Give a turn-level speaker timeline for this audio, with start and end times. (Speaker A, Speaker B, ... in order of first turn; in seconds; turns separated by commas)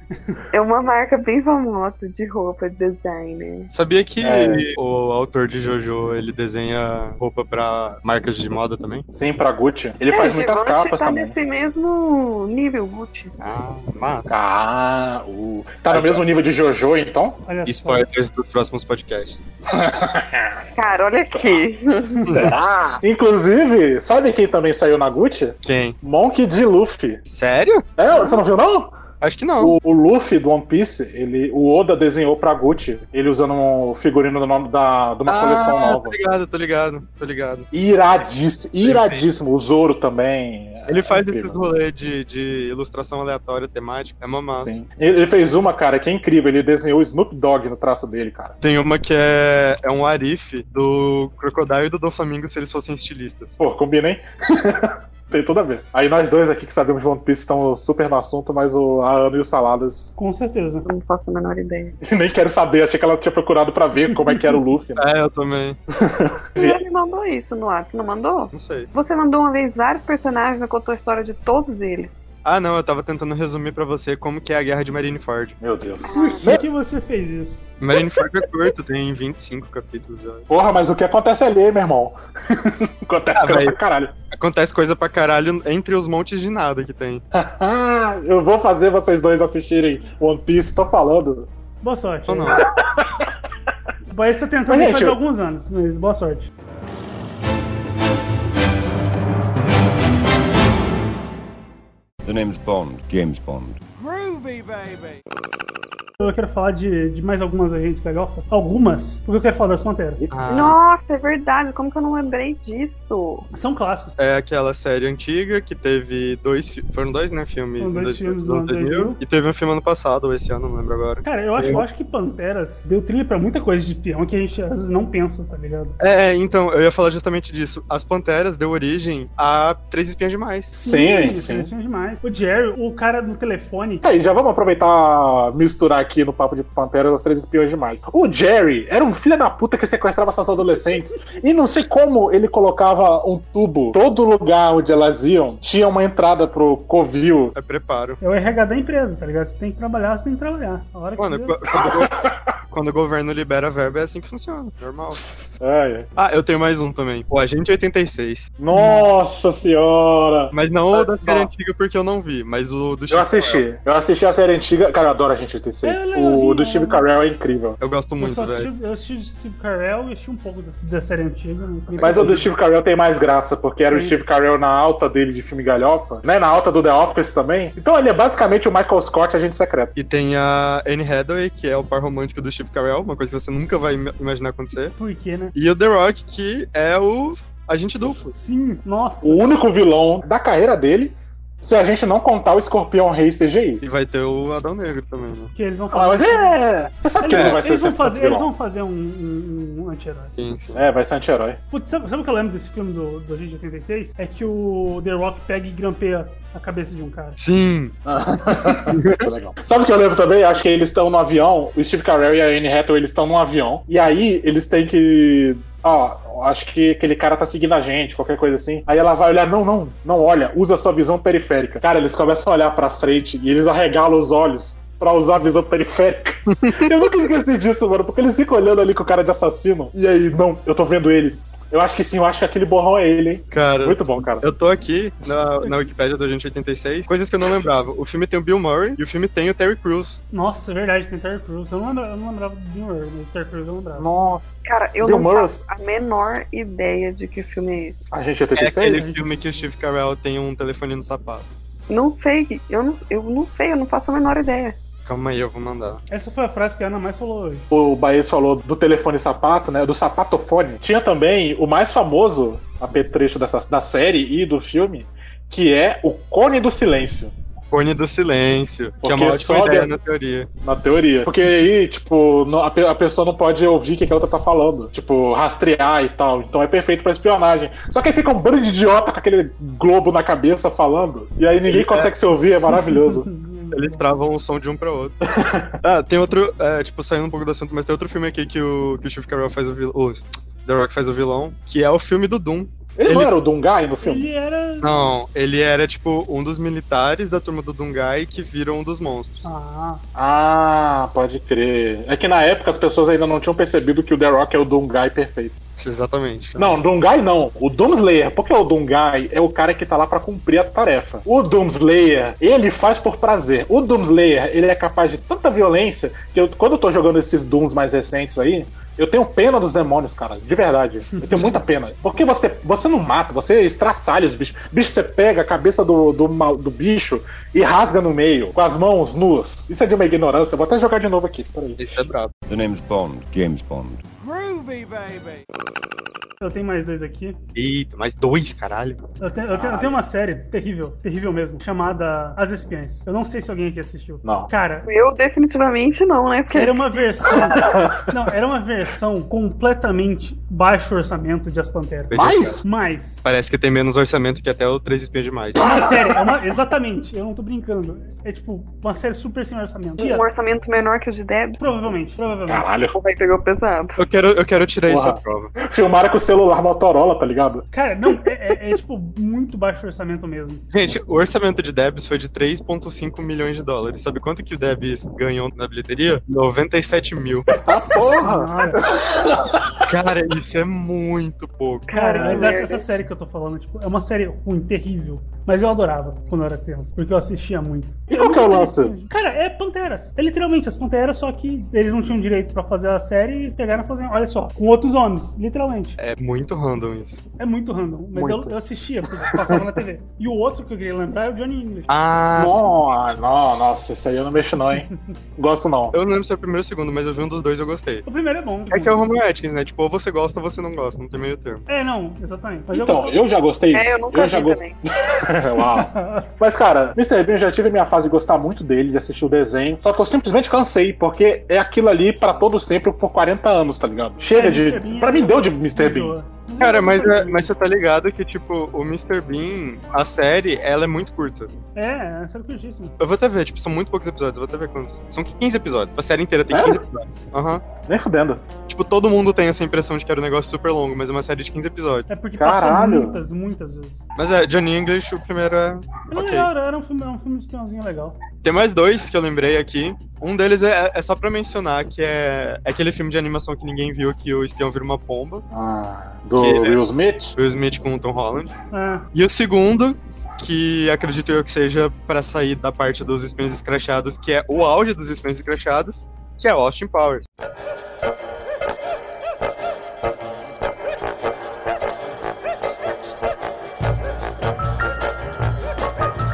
Speaker A: 0.1-0.4, Speaker B: 0.5-3.7, Speaker C: 3.7-9.1, Speaker D: 4.2-4.7, Speaker D: 9.1-11.3, Speaker B: 10.1-13.3, Speaker C: 13.4-14.3, Speaker D: 14.3-17.4, Speaker C: 15.9-16.2, Speaker A: 17.4-18.1, Speaker C: 17.6-19.4, Speaker D: 19.7-20.6, Speaker B: 20.8-22.2, Speaker A: 22.2-22.5, Speaker D: 22.3-27.2, Speaker C: 25.6-26.0, Speaker C: 27.3-27.8, Speaker D: 28.0-28.9, Speaker B: 28.1-28.4, Speaker C: 29.2-29.8, Speaker D: 29.6-36.1, Speaker C: 35.3-37.7, Speaker D: 37.7-41.7, Speaker C: 38.8-39.2, Speaker C: 40.9-44.7, Speaker D: 44.6-48.5, Speaker C: 48.6-53.5, Speaker D: 53.6-60.1, Speaker A: 60.2-60.9, Speaker B: 60.8-62.0, Speaker D: 62.0-65.1, Speaker A: 64.3-64.5, Speaker C: 65.0-65.8, Speaker D: 65.9-66.8, Speaker B: 66.6-72.1, Speaker C: 68.5-68.9, Speaker C: 72.4-75.5, Speaker D: 75.6-76.6, Speaker B: 76.0-76.5, Speaker A: 76.4-77.7, Speaker C: 77.8-80.4, Speaker D: 80.5-84.1, Speaker C: 83.4-83.8, Speaker C: 84.3-87.2, Speaker D: 87.3-91.5, Speaker A: 91.8-92.6, Speaker C: 92.3-92.6, Speaker D: 92.6-93.3, Speaker A: 94.1-96.5, Speaker D: 94.7-95.2, Speaker E: 102.2-103.8, Speaker F: 104.0-105.2, Speaker A: 106.2-110.2, Speaker D: 110.2-110.5, Speaker C: 110.3-110.8, Speaker B: 110.5-113.5, Speaker A: 113.5-114.1, Speaker C: 114.2-121.8, Speaker A: 117.8-119.2, Speaker A: 121.2-126.0, Speaker C: 126.0-130.7, Speaker A: 130.7-134.1, Speaker D: 130.8-131.7, Speaker D: 134.0-147.5, Speaker C: 147.5-148.2, Speaker A: 148.2-151.6, Speaker C: 151.2-152.1, Speaker D: 151.7-152.4, Speaker C: 152.7-155.4, Speaker D: 155.6-156.1, Speaker C: 156.2-158.5, Speaker D: 158.6-161.5, Speaker A: 158.7-159.1, Speaker C: 160.5-163.6, Speaker D: 163.1-167.8, Speaker A: 165.8-167.0, Speaker C: 167.8-168.7, Speaker A: 168.2-172.5, Speaker C: 171.9-172.4, Speaker D: 172.0-179.9, Speaker A: 173.9-174.2, Speaker C: 179.9-184.9, Speaker A: 185.0-185.5, Speaker C: 185.5-188.3, Speaker A: 188.3-189.4, Speaker D: 189.2-193.8, Speaker C: 193.8-195.5, Speaker A: 195.6-196.6, Speaker D: 195.9-198.5, Speaker A: 197.2-200.3, Speaker C: 197.3-197.6, Speaker C: 200.4-200.9, Speaker D: 200.7-201.6, Speaker A: 201.7-207.4, Speaker C: 207.4-207.9, Speaker D: 208.1-234.4, Speaker C: 208.7-209.3, Speaker C: 226.5-226.9, Speaker C: 233.5-240.2, Speaker A: 240.3-244.1, Speaker D: 243.9-245.6, Speaker B: 244.6-247.9, Speaker D: 248.1-249.1, Speaker C: 248.6-251.5, Speaker A: 248.9-249.3, Speaker B: 251.9-254.8, Speaker C: 255.0-256.0, Speaker A: 256.1-257.6, Speaker D: 257.7-267.3, Speaker C: 267.7-270.5, Speaker D: 269.0-269.9, Speaker D: 270.6-283.3, Speaker C: 281.7-282.1, Speaker A: 282.7-284.0, Speaker C: 283.7-285.2, Speaker D: 285.2-285.7, Speaker C: 285.8-293.3, Speaker D: 293.0-294.3, Speaker A: 294.0-295.1, Speaker C: 294.8-299.5, Speaker A: 299.4-300.0, Speaker D: 300.1-305.6, Speaker C: 305.8-306.8, Speaker D: 306.6-331.9, Speaker A: 321.1-321.6, Speaker C: 331.8-332.3, Speaker E: 332.5-334.0, Speaker F: 334.2-335.4, Speaker A: 336.4-337.4, Speaker C: 337.5-339.0, Speaker A: 339.2-344.9, Speaker D: 339.5-340.0, Speaker D: 344.2-344.5, Speaker B: 344.8-346.8, Speaker A: 346.5-353.2, Speaker D: 347.3-348.1, Speaker C: 352.1-352.6, Speaker D: 352.1-352.6, Speaker C: 353.2-355.9, Speaker D: 355.6-356.3, Speaker A: 355.6-360.2, Speaker B: 360.0-361.6, Speaker A: 361.6-362.7, Speaker D: 362.5-363.0, Speaker B: 362.9-364.0, Speaker C: 364.0-365.5, Speaker D: 364.9-367.6, Speaker A: 367.7-370.6, Speaker C: 370.7-377.5, Speaker D: 377.6-379.8, Speaker A: 377.7-378.8, Speaker C: 379.8-382.3, Speaker B: 381.9-382.8, Speaker A: 381.9-395.9, Speaker D: 388.1-388.9, Speaker C: 396.0-397.2, Speaker A: 397.4-401.9, Speaker D: 398.1-398.5, Speaker D: 399.2-399.8, Speaker C: 401.9-402.6, Speaker D: 402.3-405.9, Speaker C: 405.9-408.0, Speaker A: 408.1-409.0, Speaker C: 408.7-411.6, Speaker A: 411.7-413.2, Speaker D: 412.7-426.1, Speaker B: 413.7-414.8, Speaker A: 415.6-416.3, Speaker A: 424.3-427.5, Speaker C: 426.6-431.5, Speaker A: 431.7-432.9, Speaker C: 433.0-437.6, Speaker D: 436.4-436.8, Speaker D: 437.9-438.4, Speaker C: 438.7-442.1, Speaker A: 442.1-444.0, Speaker D: 442.3-443.2, Speaker C: 444.1-446.5, Speaker A: 446.1-448.2, Speaker C: 448.4-455.4, Speaker D: 455.5-457.3, Speaker C: 456.4-456.8, Speaker C: 457.4-458.5, Speaker A: 458.7-459.1, Speaker C: 459.1-467.2